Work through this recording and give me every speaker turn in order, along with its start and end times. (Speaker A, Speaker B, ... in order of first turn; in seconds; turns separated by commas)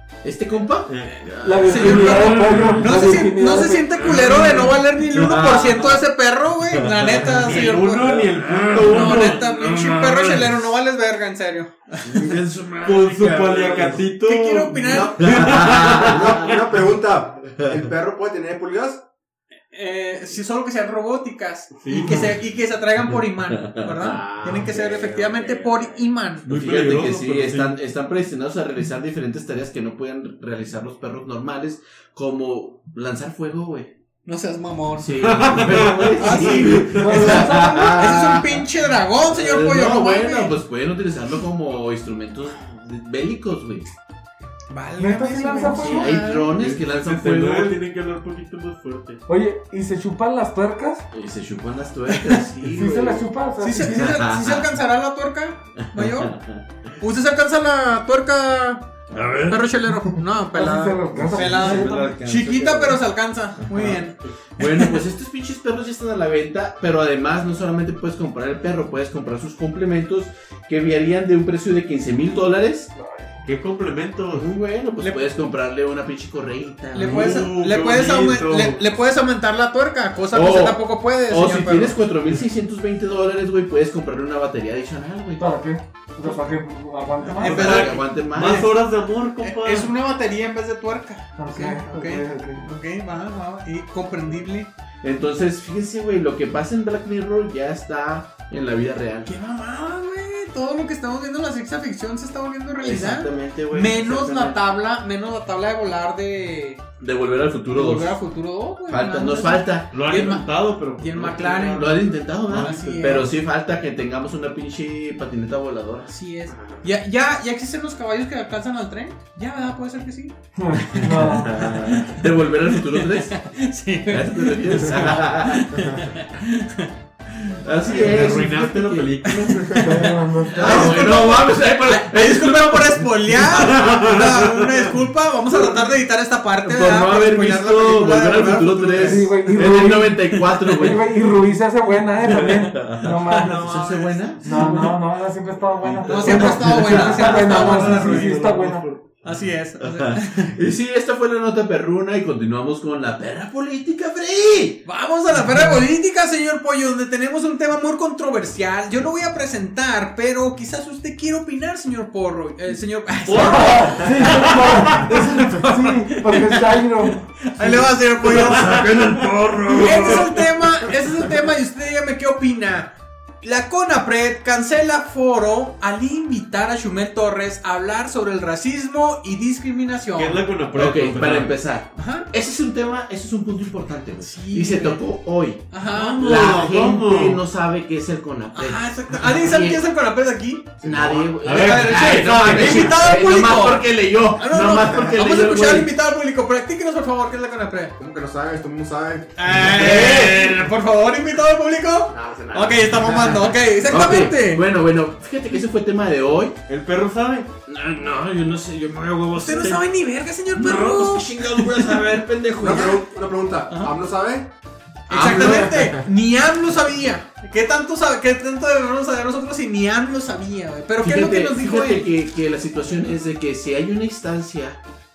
Speaker A: 0.2-2.3, Speaker B: 0.9-1.2, Speaker C: 1.4-4.2, Speaker D: 1.7-8.2, Speaker E: 2.0-3.0, Speaker E: 4.0-4.7, Speaker A: 5.1-5.9, Speaker B: 7.2-9.4, Speaker E: 8.1-10.7, Speaker D: 8.8-12.4, Speaker E: 12.0-14.0, Speaker B: 12.8-16.6, Speaker D: 14.2-15.4, Speaker A: 14.9-16.6, Speaker F: 16.0-19.0, Speaker D: 19.7-26.5, Speaker B: 21.8-22.4, Speaker A: 23.7-33.9, Speaker B: 26.4-27.8, Speaker D: 34.3-35.1, Speaker A: 35.0-38.6, Speaker B: 35.2-37.4, Speaker D: 36.2-40.6, Speaker C: 36.3-38.2, Speaker A: 39.2-43.9, Speaker D: 44.7-46.6, Speaker C: 45.0-46.1, Speaker A: 45.7-47.8, Speaker B: 46.6-49.2, Speaker C: 49.3-51.1, Speaker A: 51.1-53.3, Speaker C: 52.6-54.0, Speaker D: 53.6-56.4, Speaker A: 53.8-54.7, Speaker A: 55.8-56.6, Speaker D: 57.0-58.9, Speaker E: 59.1-59.6, Speaker D: 59.5-65.0, Speaker C: 60.1-62.1, Speaker A: 61.1-63.0, Speaker A: 63.7-64.0, Speaker A: 64.6-72.9, Speaker C: 73.0-73.3, Speaker B: 73.4-74.5, Speaker A: 74.3-77.5, Speaker D: 75.0-75.3, Speaker D: 76.9-82.0, Speaker B: 77.0-78.8, Speaker A: 80.3-85.5, Speaker C: 85.4-87.8, Speaker D: 87.4-88.8, Speaker B: 87.4-89.9, Speaker A: 87.4-88.7, Speaker D: 89.4-94.7, Speaker C: 91.4-92.7, Speaker A: 95.0-99.3, Speaker D: 99.3-106.8, Speaker A: 102.8-104.6, Speaker A: 107.0-108.2, Speaker D: 107.7-113.3, Speaker A: 108.9-110.0, Speaker B: 109.9-113.3, Speaker A: 111.8-116.1, Speaker D: 116.1-120.3, Speaker C: 120.5-121.7, Speaker D: 120.8-128.3, Speaker A: 120.9-123.4, Speaker A: 124.1-125.7, Speaker A: 127.6-129.5, Speaker B: 127.9-129.8, Speaker D: 129.2-139.8, Speaker F: 129.6-129.9, Speaker C: 129.8-131.2, Speaker A: 130.5-133.1, Speaker B: 133.4-134.9, Speaker A: 135.5-135.9, Speaker A: 136.6-141.2, Speaker C: 138.9-143.7, Speaker D: 140.3-140.6, Speaker A: 142.4-145.0, Speaker D: 143.0-144.9, Speaker C: 144.4-148.9, Speaker A: 145.8-147.5, Speaker D: 146.1-148.4, Speaker B: 146.3-149.2, Speaker D: 149.2-150.6, Speaker A: 149.8-154.8, Speaker D: 154.8-168.9, Speaker C: 155.3-155.8, Speaker B: 163.3-165.1, Speaker C: 163.3-167.9, Speaker E: 168.2-170.5, Speaker B: 168.3-169.3, Speaker D: 169.7-180.4, Speaker B: 180.2-181.6, Speaker A: 180.7-185.7, Speaker D: 182.0-182.3, Speaker D: 184.2-185.0, Speaker D: 185.7-186.3, Speaker B: 185.9-187.4, Speaker A: 186.2-189.8, Speaker D: 188.5-190.8, Speaker F: 190.8-191.4, Speaker A: 190.8-195.9, Speaker B: 191.4-193.2, Speaker D: 191.4-197.9, Speaker F: 198.0-200.1, Speaker D: 199.4-204.6, Speaker A: 199.7-200.5, Speaker F: 202.1-203.5, Speaker A: 203.9-206.6, Speaker B: 206.7-207.5, Speaker E: 207.7-209.9, Speaker D: 209.3-212.0, Speaker E: 210.6-212.9, Speaker F: 212.6-214.5, Speaker D: 212.6-213.0, Speaker D: 215.1-222.1, Speaker F: 215.2-216.0, Speaker A: 215.2-215.5, Speaker A: 221.0-224.8